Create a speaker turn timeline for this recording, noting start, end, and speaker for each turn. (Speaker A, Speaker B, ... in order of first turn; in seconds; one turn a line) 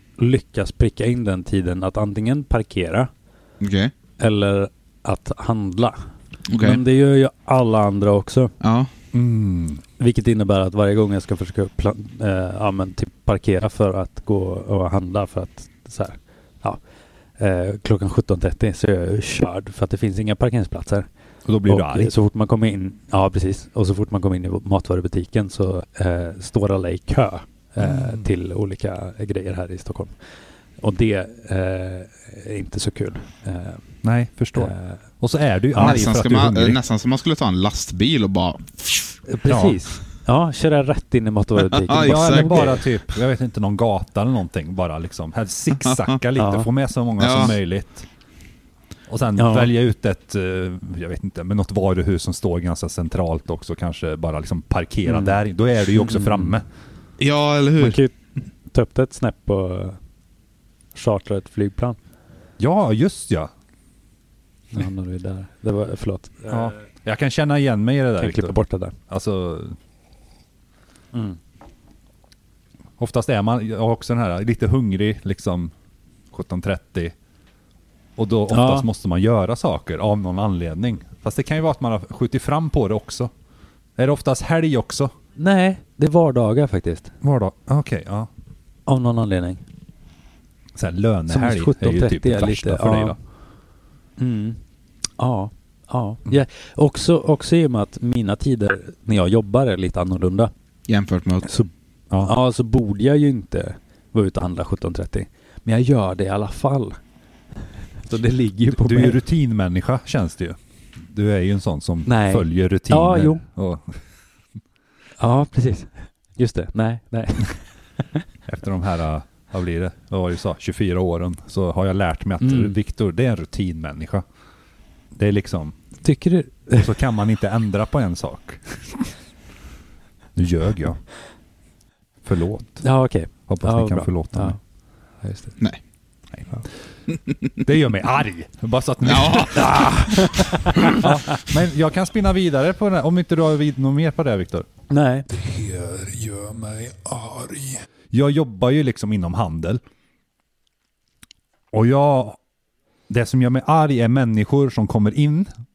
Speaker A: 0.2-3.1
Speaker B: 3.6-3.9
Speaker A: 4.2-6.0
Speaker B: 6.5-6.8
Speaker A: 6.6-8.5
Speaker B: 8.6-8.9
Speaker C: 9.1-9.8
Speaker A: 10.0-16.8
Speaker A: 17.4-21.1
Speaker C: 21.4-22.1
Speaker A: 21.7-30.1
Speaker C: 27.8-28.2
Speaker A: 30.8-33.8
Speaker C: 34.0-36.8
Speaker A: 34.6-35.0
Speaker B: 35.7-39.1
Speaker A: 39.3-42.9
Speaker C: 39.5-39.8
Speaker B: 41.7-42.8
Speaker C: 42.0-48.1
Speaker B: 45.8-46.2
Speaker A: 46.4-46.7
Speaker B: 47.2-47.5
Speaker C: 49.1-56.6
Speaker A: 49.4-49.7
Speaker A: 55.0-55.4
Speaker A: 55.9-56.5
Speaker B: 57.2-58.0
Speaker A: 57.8-58.1
Speaker A: 58.7-60.0
Speaker A: 60.9-62.0
Speaker C: 62.6-63.5
Speaker A: 64.7-66.7
Speaker C: 66.5-68.5
Speaker A: 68.2-69.0
Speaker C: 69.1-69.8
Speaker C: 73.0-75.7
Speaker C: 76.3-77.1
Speaker C: 78.2-83.3
Speaker A: 78.5-78.9
Speaker C: 84.0-85.1
Speaker A: 85.4-87.1
Speaker C: 87.2-88.3
Speaker A: 88.9-89.6
Speaker C: 90.8-93.2
Speaker A: 91.3-93.2
Speaker A: 94.2-94.6
Speaker A: 95.2-100.5
Speaker B: 100.9-101.5
Speaker A: 102.2-107.0
Speaker A: 108.0-109.2
Speaker C: 108.7-114.0
Speaker A: 112.0-113.4
Speaker A: 115.2-117.6
Speaker C: 118.5-124.2
Speaker A: 122.4-122.7
Speaker C: 125.2-125.8
Speaker A: 126.0-127.0
Speaker C: 126.8-129.1
Speaker C: 130.3-131.0
Speaker C: 132.2-132.8
Speaker A: 132.8-134.6
Speaker C: 133.5-134.6
Speaker A: 135.2-135.5
Speaker C: 136.3-136.6
Speaker C: 137.6-144.7
Speaker B: 139.0-139.9
Speaker A: 139.5-141.1
Speaker A: 144.9-145.3
Speaker D: 145.3-147.8
Speaker C: 148.1-149.8
Speaker C: 151.7-152.4
Speaker C: 153.1-155.5